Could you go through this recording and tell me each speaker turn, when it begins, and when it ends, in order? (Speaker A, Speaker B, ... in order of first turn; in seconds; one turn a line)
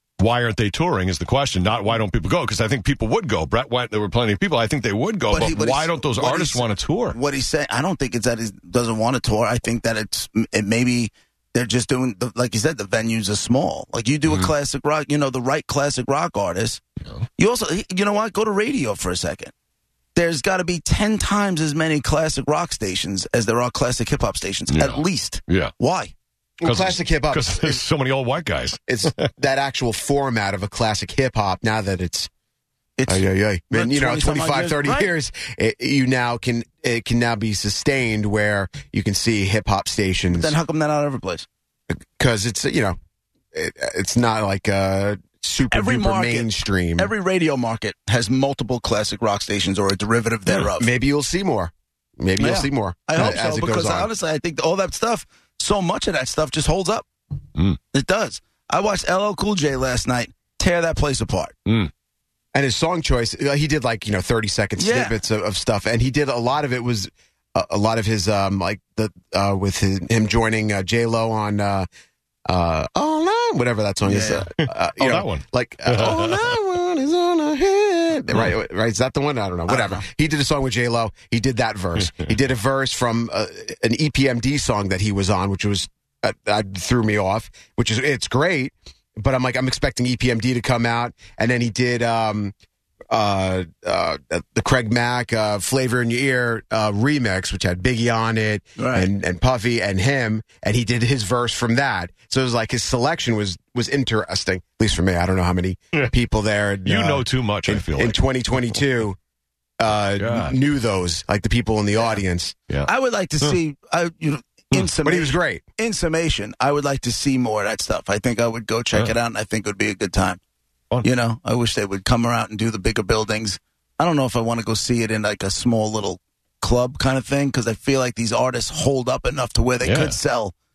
Speaker A: 0.2-7.2
Speaker B: 5.3-16.8
Speaker A: 14.3-14.5
Speaker B: 17.4-19.5
Speaker B: 20.1-26.1
Speaker A: 24.7-25.7
Speaker C: 26.6-27.8
Speaker A: 26.6-29.2
Speaker C: 28.9-32.3
Speaker B: 33.0-35.1
Speaker C: 33.1-40.5
Speaker B: 40.3-41.5
Speaker C: 41.9-43.0
Speaker C: 43.5-47.1
Speaker B: 45.7-50.9
Speaker C: 50.8-54.1
Speaker B: 52.4-57.1
Speaker B: 57.9-61.6
Speaker A: 61.7-61.9
Speaker C: 62.5-71.9
Speaker B: 64.8-65.2
Speaker C: 72.5-92.5
Speaker B: 74.0-74.5
Speaker A: 74.6-76.5
Speaker B: 79.7-80.0
Speaker A: 82.0-82.3
Speaker C: 93.1-109.2
Speaker B: 98.8-99.1
Speaker A: 106.8-108.2
Speaker C: 109.8-112.5
Speaker A: 109.9-110.6
Speaker B: 112.0-112.2
Speaker A: 112.7-113.6
Speaker B: 112.9-120.4
Speaker C: 115.0-115.6
Speaker B: 121.0-130.5
Speaker A: 129.8-130.2